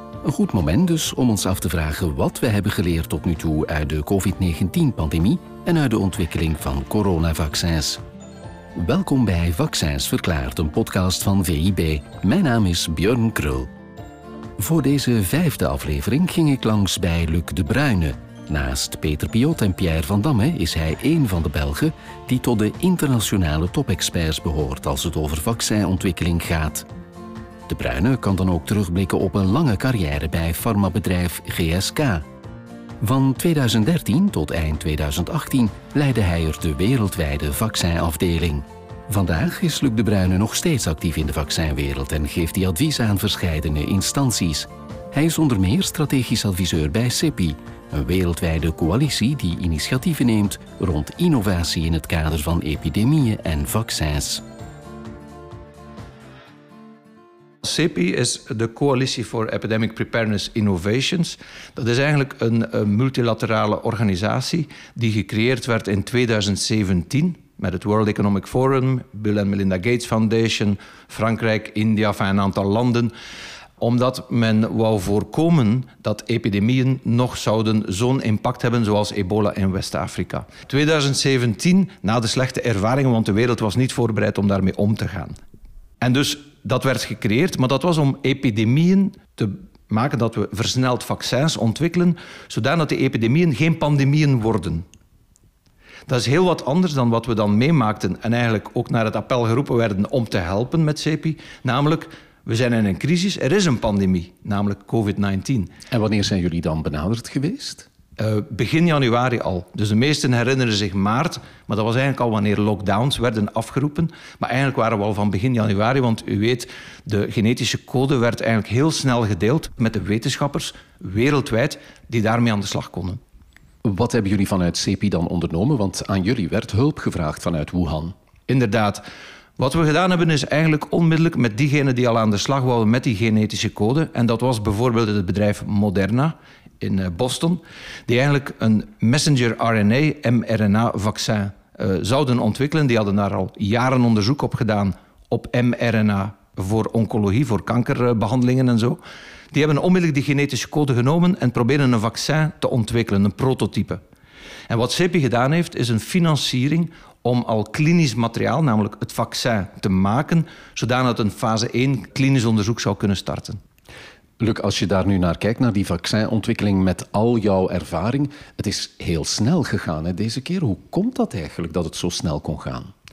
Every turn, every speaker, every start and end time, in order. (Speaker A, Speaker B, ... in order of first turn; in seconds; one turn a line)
Speaker A: 0.2-8.0
Speaker A: 8.7-13.7
Speaker A: 14.6-26.9
Speaker A: 27.7-32.2
Speaker A: 33.0-54.4
Speaker B: 57.6-73.1
Speaker B: 73.8-85.3
Speaker B: 86.0-94.8
Speaker B: 96.1-105.7
Speaker A: 105.9-107.9
Speaker B: 108.2-123.2
Speaker A: 123.8-128.1
Speaker B: 128.5-129.0
Speaker B: 129.6-149.0
Speaker B: 149.5-154.0
Speaker B: 154.7-163.6
Speaker A: 164.4-172.9